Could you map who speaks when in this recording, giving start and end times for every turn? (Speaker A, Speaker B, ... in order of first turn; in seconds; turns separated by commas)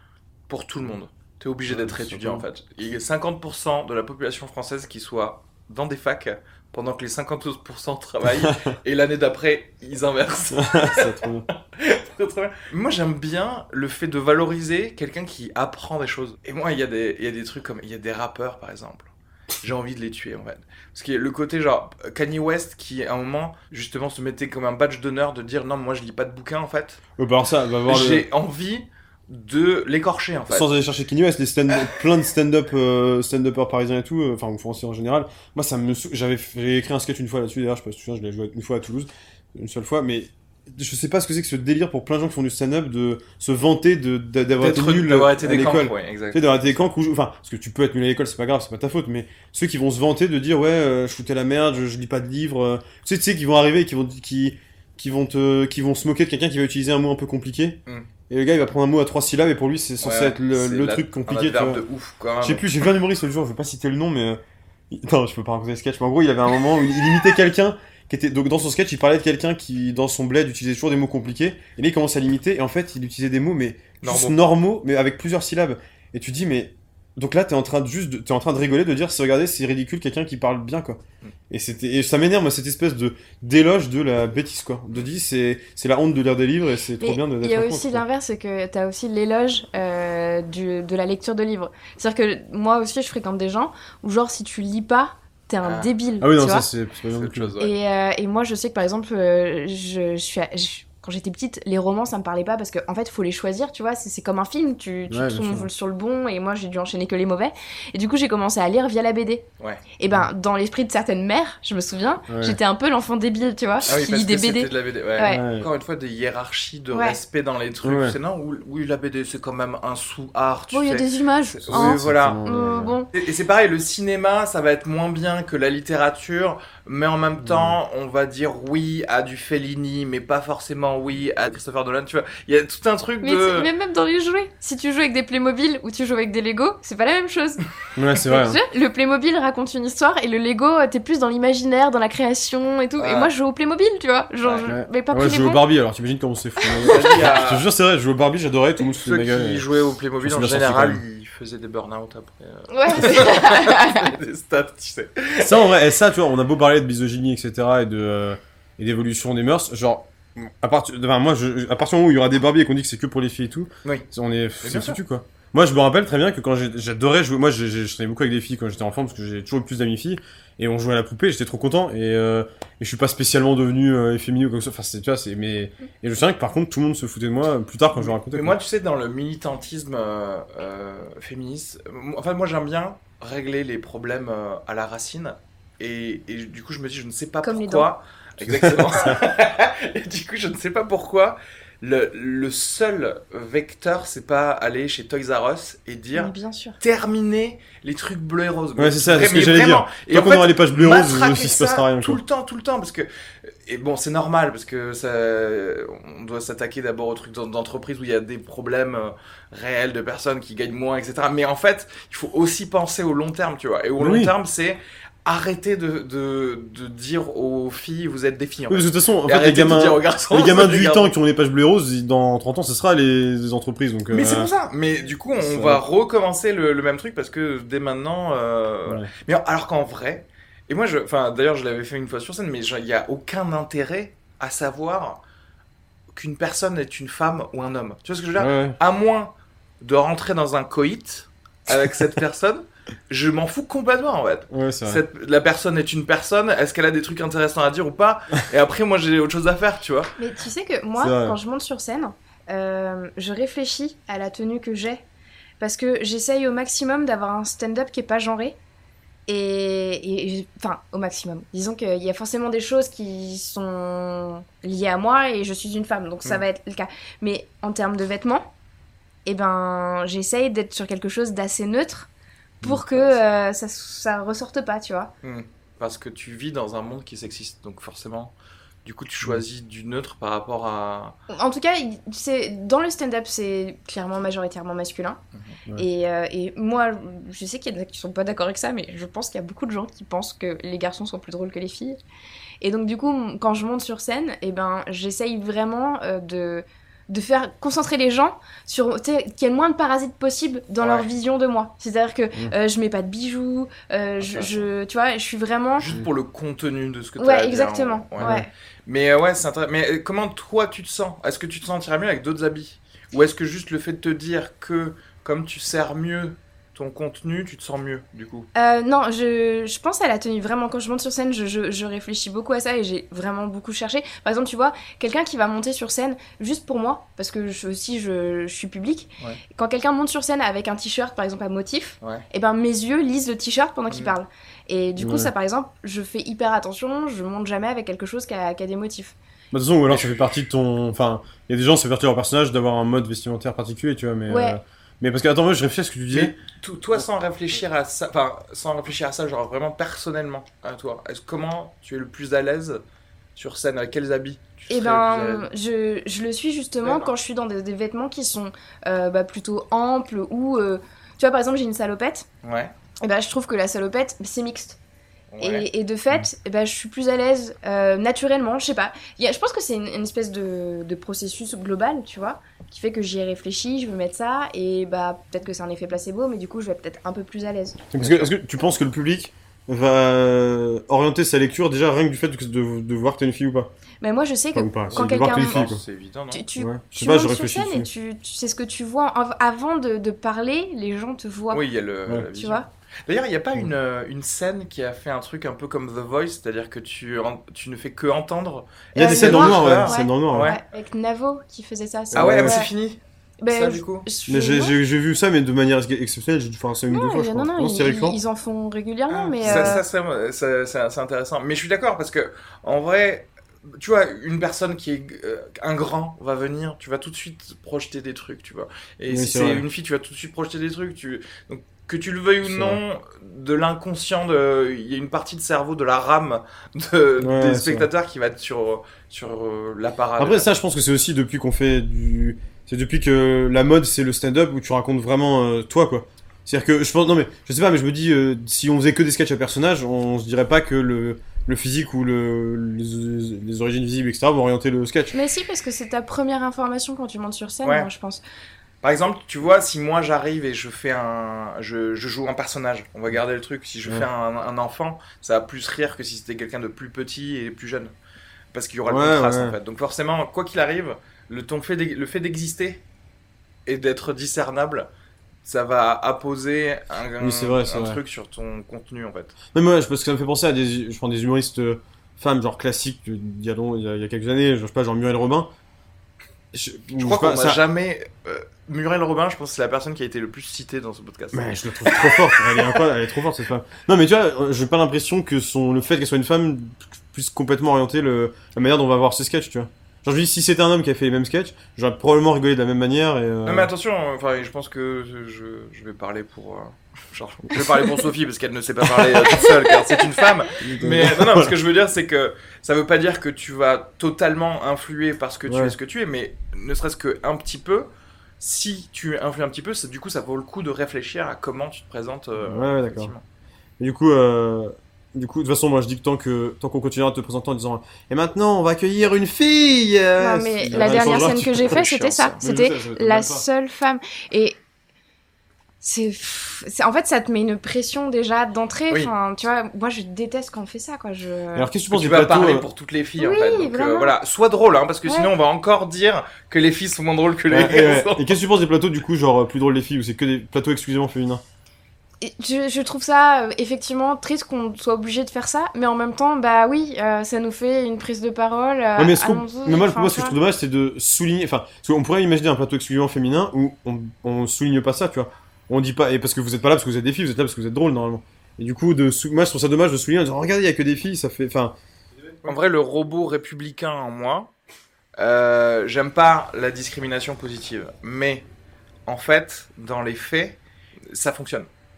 Speaker A: 0.5-19.1, Speaker B: 1.7-2.4, Speaker B: 8.4-8.7, Speaker B: 10.5-11.5, Speaker A: 19.6-27.0, Speaker B: 27.2-28.2, Speaker A: 27.9-30.7, Speaker B: 30.5-57.8, Speaker A: 44.6-46.9, Speaker B: 58.3-61.8, Speaker A: 60.0-62.7, Speaker B: 62.4-88.0, Speaker A: 74.0-74.4, Speaker C: 87.0-96.7, Speaker A: 95.6-95.9, Speaker B: 96.2-97.5, Speaker A: 97.1-97.7, Speaker C: 97.6-109.4, Speaker B: 105.1-105.7, Speaker C: 110.0-115.5, Speaker B: 112.3-112.6, Speaker A: 113.8-122.4, Speaker B: 115.3-115.7, Speaker C: 116.9-117.2, Speaker B: 117.8-118.2, Speaker C: 120.7-123.1, Speaker B: 121.7-123.0, Speaker A: 123.1-133.7, Speaker B: 127.4-127.8, Speaker C: 133.2-137.6, Speaker B: 137.9-138.6, Speaker C: 138.2-145.6, Speaker A: 143.0-143.3, Speaker A: 144.4-144.7, Speaker B: 144.7-149.6, Speaker C: 146.7-147.0, Speaker A: 146.8-147.7, Speaker A: 148.8-155.7, Speaker B: 150.2-151.0, Speaker C: 152.7-154.1, Speaker B: 155.4-178.6, Speaker A: 164.6-165.0, Speaker A: 177.9-221.1, Speaker C: 187.4-187.9, Speaker B: 188.4-189.2, Speaker C: 196.2-196.8, Speaker B: 198.8-202.2, Speaker B: 214.0-214.3, Speaker B: 218.7-224.5, Speaker A: 224.1-235.2, Speaker B: 225.4-225.8, Speaker A: 236.1-250.1, Speaker B: 238.4-238.8, Speaker B: 244.5-245.0, Speaker C: 250.2-255.0, Speaker B: 251.0-251.4, Speaker C: 255.6-258.6, Speaker C: 259.3-268.5, Speaker C: 269.2-272.1, Speaker C: 272.6-275.1, Speaker A: 275.2-278.3, Speaker A: 278.8-281.2, Speaker C: 281.3-285.2, Speaker C: 285.8-292.0, Speaker C: 292.6-305.9, Speaker A: 300.8-301.1, Speaker A: 304.2-304.7, Speaker A: 305.8-318.5, Speaker C: 307.2-308.5, Speaker C: 318.5-339.1, Speaker B: 335.0-335.3, Speaker B: 339.5-346.3, Speaker A: 339.9-340.3, Speaker C: 344.3-344.6, Speaker A: 346.1-352.8, Speaker A: 353.4-355.5, Speaker C: 354.7-362.3, Speaker A: 362.4-362.7, Speaker C: 363.0-364.8, Speaker A: 365.3-365.7, Speaker C: 365.4-377.8, Speaker B: 377.9-383.7, Speaker C: 384.0-385.7, Speaker B: 384.5-385.8, Speaker A: 384.9-386.4, Speaker C: 386.3-391.6, Speaker B: 386.6-387.9, Speaker A: 391.5-400.6, Speaker C: 392.3-392.7, Speaker C: 398.9-402.7, Speaker B: 398.9-400.5, Speaker B: 402.1-402.6, Speaker A: 402.1-404.1, Speaker C: 403.4-404.8, Speaker B: 404.3-408.2, Speaker C: 406.9-409.8, Speaker A: 409.1-430.5, Speaker B: 409.4-409.7, Speaker B: 419.1-419.6, Speaker B: 422.4-422.8, Speaker B: 427.2-427.9, Speaker B: 430.2-445.1, Speaker C: 445.1-448.2, Speaker A: 447.6-447.9, Speaker A: 448.8-457.9, Speaker A: 458.5-462.8, Speaker B: 458.9-459.6, Speaker A: 463.6-464.9, Speaker A: 465.4-469.4, Speaker B: 467.2-468.0, Speaker B: 469.5-475.5, Speaker B: 476.5-477.6, Speaker A: 476.9-482.6, Speaker B: 481.3-493.7, Speaker A: 493.4-507.9, Speaker B: 499.0-499.2, Speaker C: 499.4-500.0, Speaker B: 500.6-501.5, Speaker B: 505.5-505.8, Speaker A: 508.4-513.2, Speaker B: 512.4-513.1, Speaker B: 513.8-521.9, Speaker C: 520.2-524.5, Speaker A: 520.7-522.4, Speaker B: 522.4-523.5, Speaker C: 525.8-531.7, Speaker B: 531.5-532.6, Speaker A: 531.9-538.4, Speaker C: 533.2-534.1, Speaker B: 537.5-541.4, Speaker C: 542.2-550.4, Speaker B: 549.0-561.7, Speaker A: 562.4-564.5, Speaker A: 565.2-568.5, Speaker A: 569.1-570.6, Speaker A: 571.1-571.7